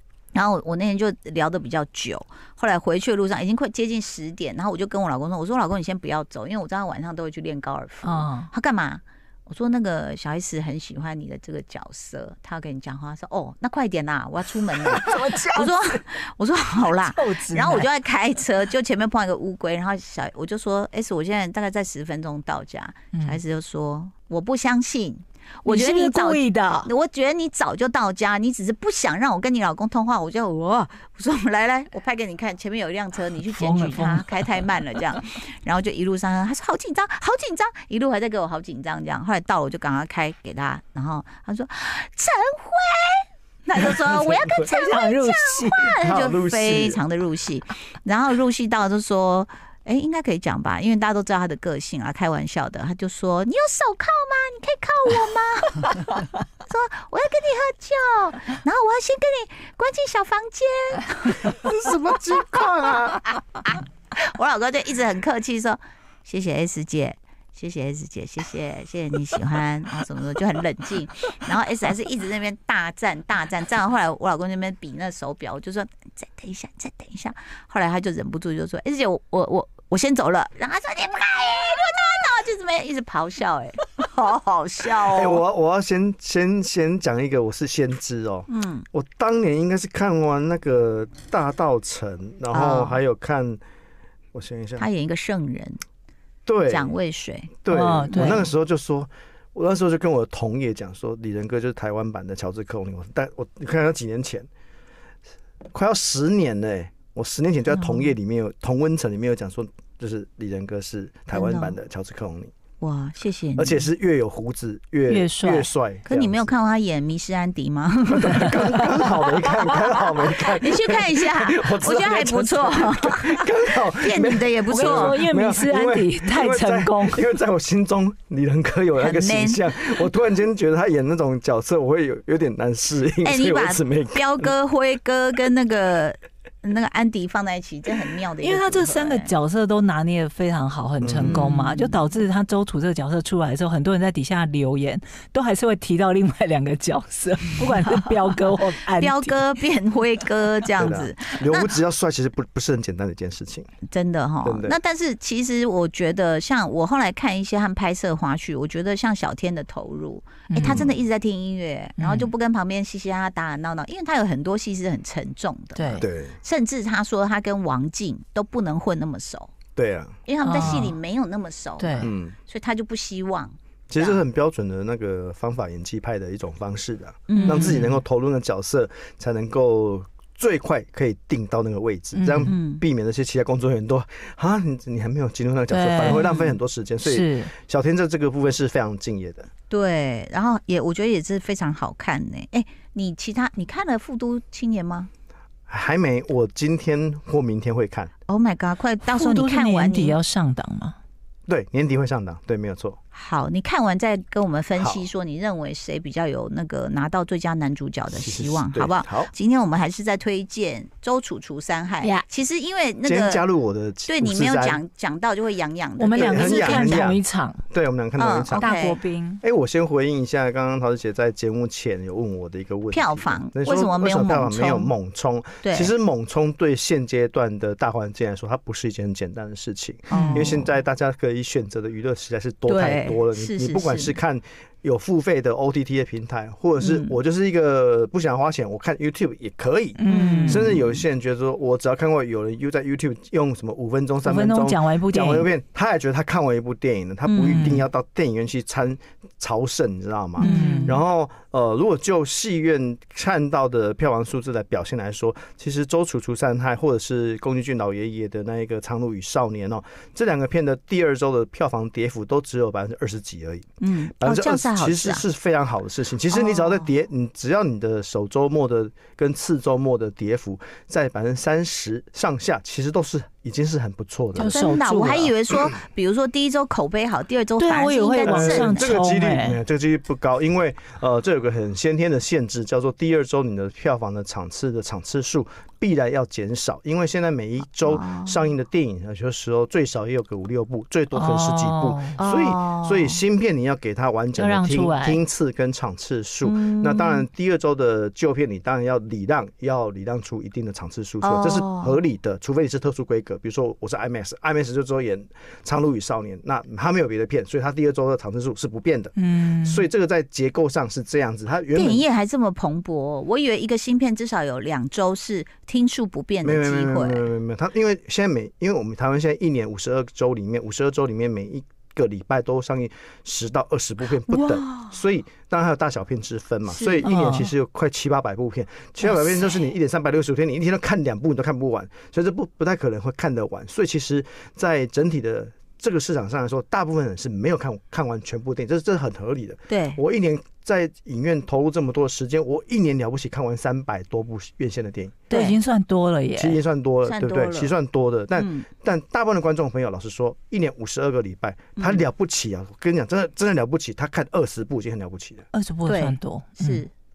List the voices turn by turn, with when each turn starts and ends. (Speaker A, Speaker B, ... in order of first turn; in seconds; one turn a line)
Speaker A: 0.3-61.7
Speaker B: 8.0-8.5
Speaker B: 14.7-15.8
Speaker B: 16.9-17.9
Speaker B: 23.1-23.4
Speaker B: 25.6-26.9
Speaker B: 33.5-34.6
Speaker C: 44.1-44.5
Speaker B: 44.7-46.0
Speaker C: 46.0-47.0
Speaker C: 61.5-63.3
Speaker A: 62.9-85.4
Speaker C: 85.1-93.6
Speaker A: 88.5-88.8
Speaker A: 92.5-93.0
Speaker C: 94.3-94.8
Speaker A: 94.8-95.8
Speaker C: 96.5-96.9
Speaker A: 96.7-97.5
Speaker C: 97.6-104.5
Speaker B: 97.7-98.5
Speaker C: 105.7-112.5
Speaker A: 111.3-111.7
Speaker A: 112.8-113.9
Speaker C: 113.6-116.5
Speaker B: 115.1-115.7
Speaker A: 116.0-119.0
Speaker C: 118.1-134.5
Speaker A: 119.6-125.2
Speaker B: 124.7-127.3
Speaker A: 129.0-129.9
Speaker A: 133.2-139.3
Speaker B: 138.4-149.3
Speaker C: 141.0-141.5
Speaker A: 141.2-142.0
Speaker A: 148.9-151.8
Speaker C: 150.8-153.7
Speaker A: 153.9-169.5
Speaker C: 154.4-154.8
Speaker B: 160.5-160.8
Speaker C: 160.6-160.9
Speaker B: 162.0-162.3
Speaker B: 165.8-166.0
Speaker C: 166.0-166.4
Speaker C: 169.8-170.9
Speaker A: 170.2-174.2
Speaker B: 170.4-170.9
Speaker B: 171.8-172.1
Speaker C: 172.0-172.3
Speaker C: 173.9-189.5
Speaker A: 177.3-177.8
Speaker B: 177.3-178.0
Speaker B: 182.1-182.5
Speaker A: 182.5-182.8
Speaker B: 185.7-187.5
Speaker A: 189.7-195.1
Speaker C: 195.7-198.1
Speaker A: 198.3-200.2
Speaker B: 199.1-200.9
Speaker C: 201.5-203.0
Speaker A: 203.1-213.4
Speaker C: 204.8-205.1
Speaker C: 208.1-209.3
Speaker C: 213.1-214.8
Speaker A: 214.0-217.1
Speaker B: 216.0-217.6
Speaker C: 216.1-218.7
Speaker A: 218.2-219.0
Speaker B: 218.5-219.4
Speaker C: 219.4-274.6
Speaker A: 222.9-224.9
Speaker A: 225.6-225.9
Speaker A: 230.1-230.6
Speaker B: 230.1-230.6
Speaker A: 232.7-234.2
Speaker A: 236.8-237.2
Speaker B: 240.0-240.7
Speaker A: 240.1-241.0
Speaker B: 244.2-245.5
Speaker A: 247.2-247.7
Speaker B: 247.5-247.8
Speaker A: 250.4-250.8
Speaker B: 250.4-251.0
Speaker A: 263.8-265.2
Speaker A: 266.3-266.9
Speaker B: 274.3-275.3
Speaker A: 274.5-278.9
Speaker B: 277.6-279.6
Speaker C: 278.2-312.0
Speaker A: 287.8-288.5
Speaker B: 291.1-292.2
Speaker A: 292.2-293.2
Speaker B: 294.4-295.2
Speaker A: 296.4-297.2
Speaker A: 301.2-302.0
Speaker B: 309.2-309.9
Speaker A: 311.7-317.3
Speaker C: 316.4-345.2
Speaker B: 324.3-324.9
Speaker A: 326.7-327.1
Speaker B: 327.0-327.5
Speaker B: 329.0-329.6
Speaker A: 339.7-340.0
Speaker A: 345.3-345.6
Speaker B: 345.3-346.6
Speaker C: 346.4-355.5
Speaker A: 347.0-347.7
Speaker A: 348.4-348.7
Speaker A: 351.8-352.0
Speaker B: 355.5-356.8
Speaker A: 355.9-356.9